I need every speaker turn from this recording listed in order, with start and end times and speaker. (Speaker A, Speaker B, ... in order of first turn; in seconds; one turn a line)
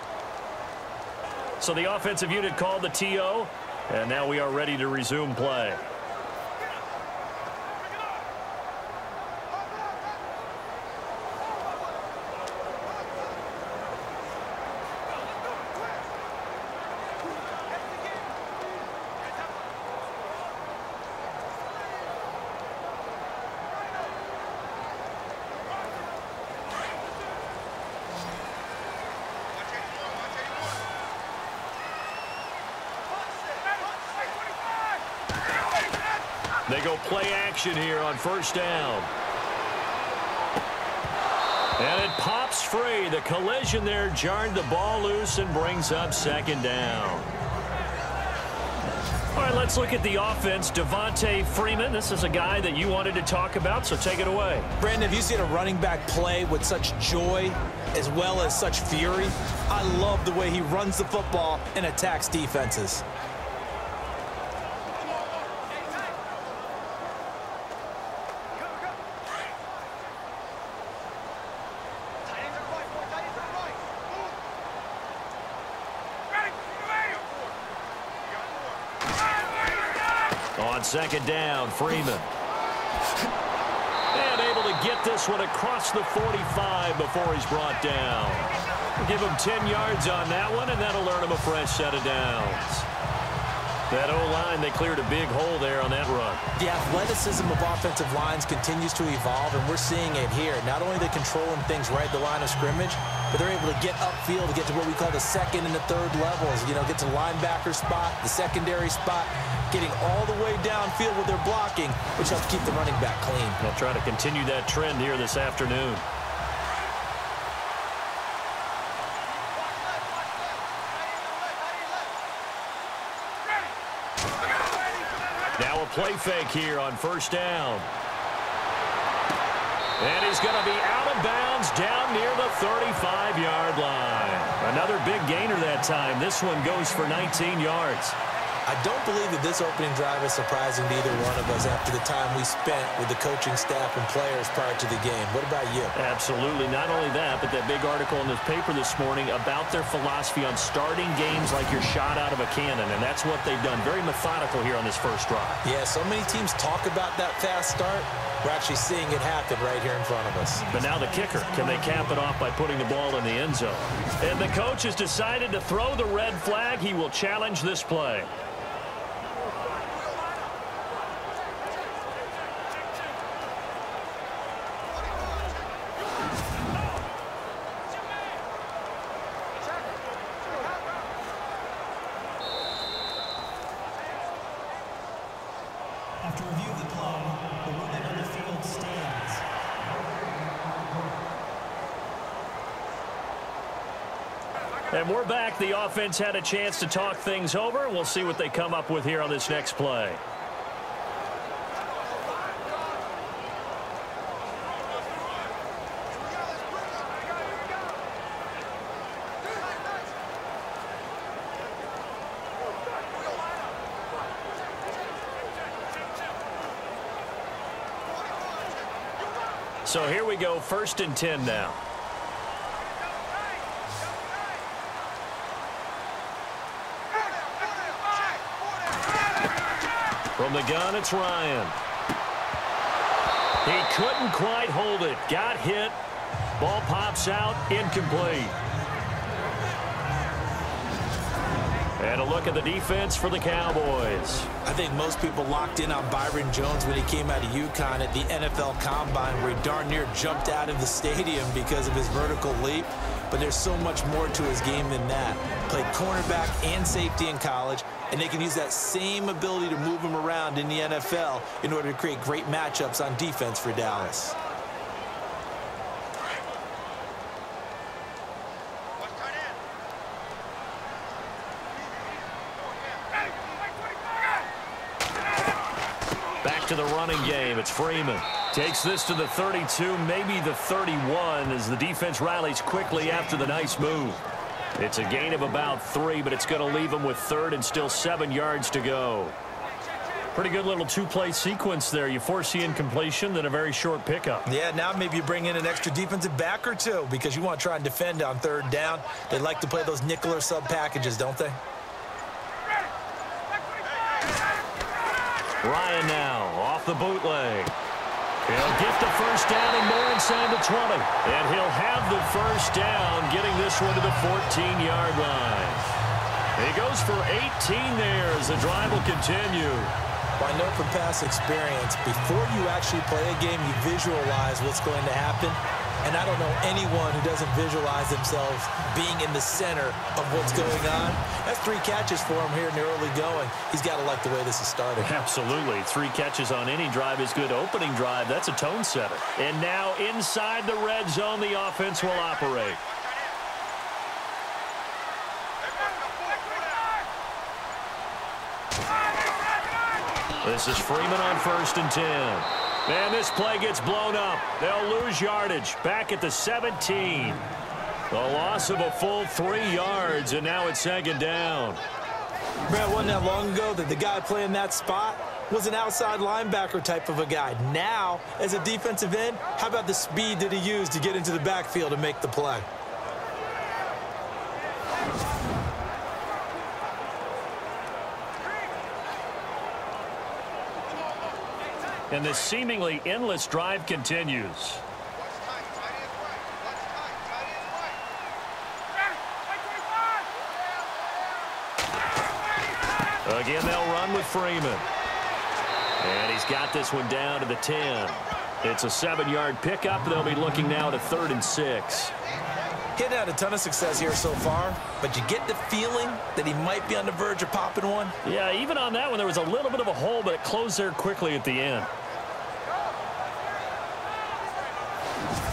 Speaker A: 1.6-5.8
Speaker A: 36.7-39.1
Speaker A: 41.8-47.3
Speaker A: 49.3-54.7
Speaker B: 54.8-63.0
Speaker A: 80.6-82.3
Speaker A: 84.1-92.9
Speaker A: 93.9-96.4
Speaker B: 96.5-113.6
Speaker A: 113.6-116.0
Speaker A: 125.6-127.9
Speaker A: 130.0-138.2
Speaker B: 138.7-145.9
Speaker A: 145.9-155.6
Speaker B: 155.6-160.6
Speaker C: 160.5-162.2
Speaker A: 160.7-168.3
Speaker C: 186.2-189.5
Speaker A: 194.9-200.2
Speaker A: 219.8-221.8
Speaker A: 230.4-231.8
Speaker A: 233.6-236.0
Speaker A: 236.6-238.6
Speaker A: 242.0-244.5
Speaker B: 244.6-264.4
Speaker A: 276.4-284.2
Speaker A: 284.8-289.4
Speaker A: 290.3-294.5
Speaker B: 294.5-301.6
Speaker A: 305.6-307.7
Speaker A: 308.4-315.8
Speaker A: 316.6-319.9
Speaker B: 320.4-335.1
Speaker A: 335.0-342.8
Speaker A: 350.4-357.4
Speaker A: 358.1-361.8
Speaker B: 362.7-372.7
Speaker A: 382.1-384.8
Speaker A: 393.2-394.9
Speaker A: 396.0-402.1
Speaker B: 403.0-408.2
Speaker A: 408.2-411.9